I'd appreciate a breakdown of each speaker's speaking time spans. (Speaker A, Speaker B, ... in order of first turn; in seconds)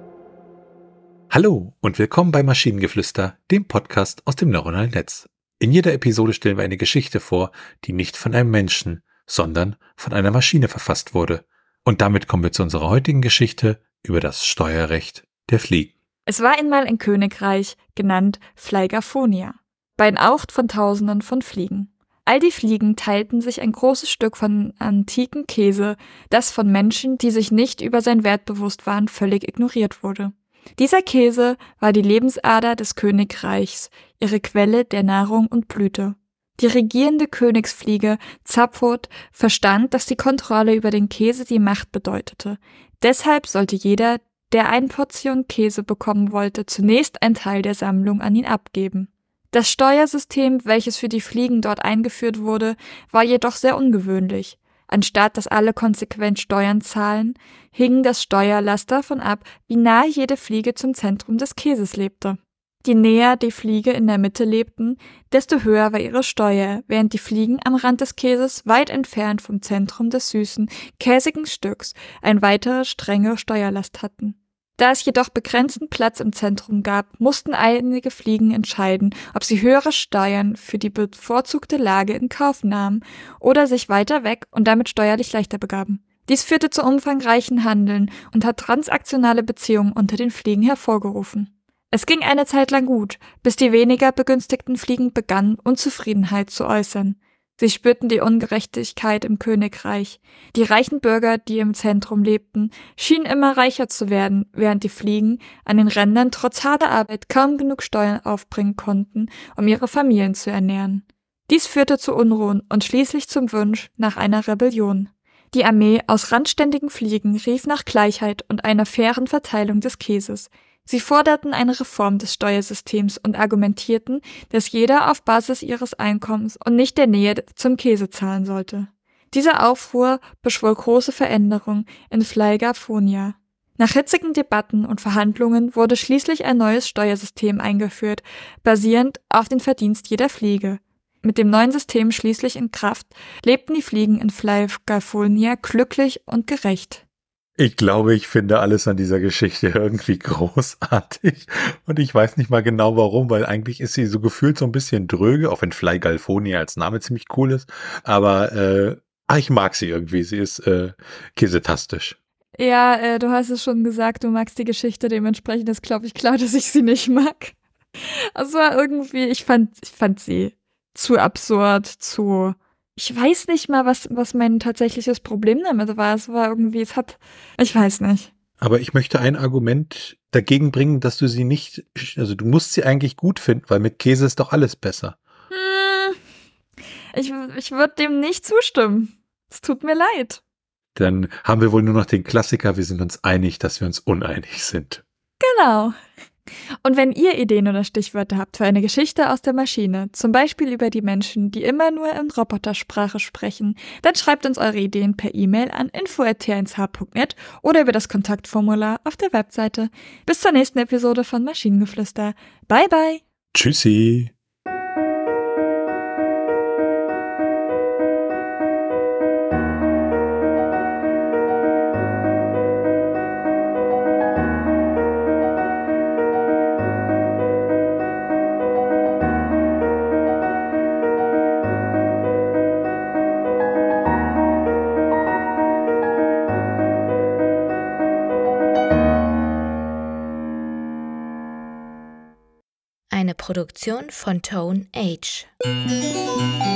Speaker A: 1.3-15.9, 147.6-162.2, 178.6-185.2, 190.9-195.0, 213.5-214.3
Speaker B: 16.2-147.0, 162.6-167.6, 168.3-178.3, 185.5-186.2, 187.1-190.4, 195.4-195.9, 196.8-213.2
Speaker C: 243.1-245.5